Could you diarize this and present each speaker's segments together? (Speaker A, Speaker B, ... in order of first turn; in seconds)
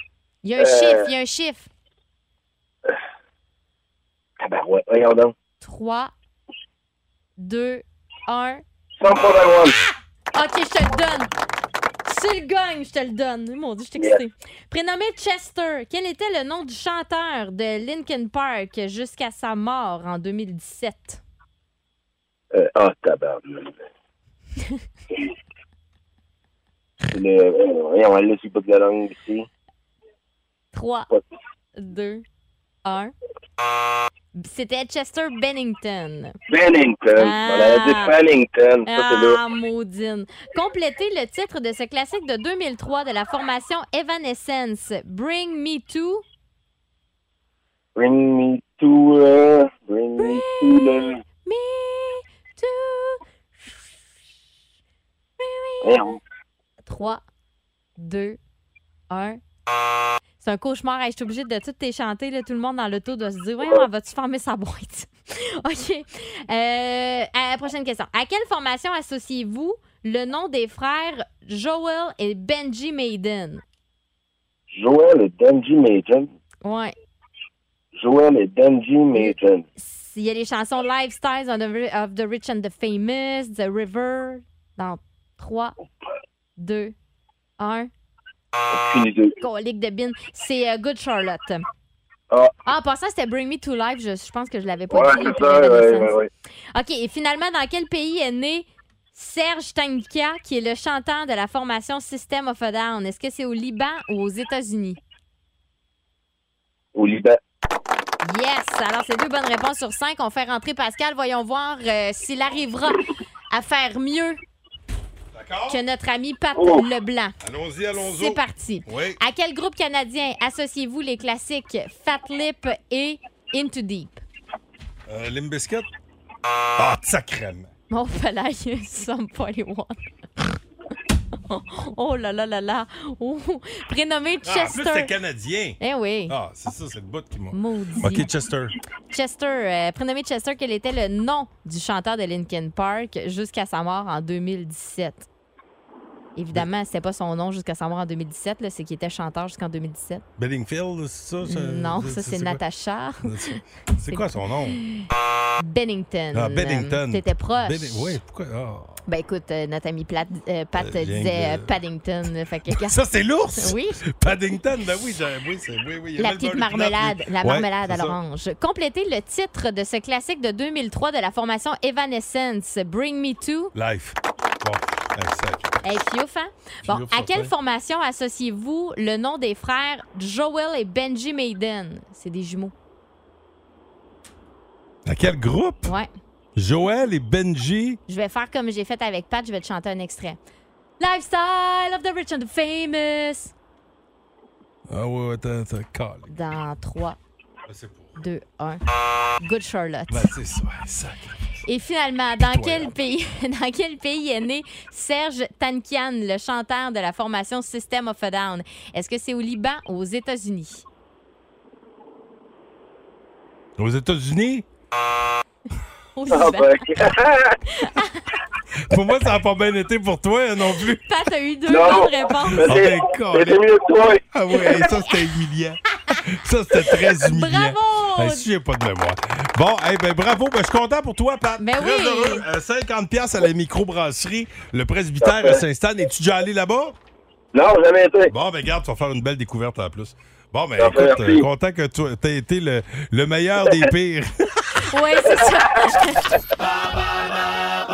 Speaker A: 0.4-1.7, 5.6-6.1, 7.4-8.6, 10.3-11.3, 12.1-21.2, 30.7-31.1, 31.8-32.2, 32.9-33.1, 34.4-36.4, 37.2-38.1, 38.9-46.2, 50.2-53.7, 55.4-56.0, 56.8-57.2, 58.0-58.4, 59.1-59.4, 60.4-73.6, 76.6-76.9, 79.1-85.8, 86.6-86.9, 87.6-87.9, 89.4-91.6, 92.7-96.2, 96.7-105.0, 108.2-114.4, 115.7-117.4, 118.0-124.2, 127.9-130.0, 131.5-135.1, 135.8-136.3, 137.5-138.3, 139.1-145.3, 146.4-150.2, 151.4-153.6, 154.1-155.0, 155.6-158.2, 159.1-163.0, 163.6-164.0, 166.2-173.7, 175.8-182.7, 185.8-186.1, 188.1-190.4, 191.0-193.5, 196.3-197.2, 198.2-198.8, 199.4-200.3, 201.7-210.8, 216.2-216.8, 217.8-218.2, 221.0-222.8, 224.5-225.2, 226.9-228.5, 231.6-232.5, 244.9-246.3
Speaker B: 0.6-1.1, 4.4-5.3, 9.0-9.8, 22.5-23.8, 27.1-29.5, 36.5-39.4, 48.0-51.2, 55.8-56.2, 74.7-76.3, 78.0-79.6, 88.7-89.4, 94.9-96.3, 107.0-107.4, 116.6-116.8, 216.3-217.6, 221.7-224.2, 235.2-235.6, 237.5-238.3, 240.8-241.5
Speaker C: 115.3-115.8, 117.4-119.2, 125.1-125.9, 126.8-127.7, 134.4-138.7, 150.4-152.6, 153.2-154.8, 156.3-159.0, 160.8-161.7, 162.7-168.2, 173.8-175.8, 176.9-177.5, 185.1-185.9, 186.6-188.0, 194.9-196.3, 197.7-198.2, 200.1-201.5, 202.4-202.9, 213.8-214.7, 218.9-221.0, 222.5-223.6, 224.3-236.9, 238.3-244.8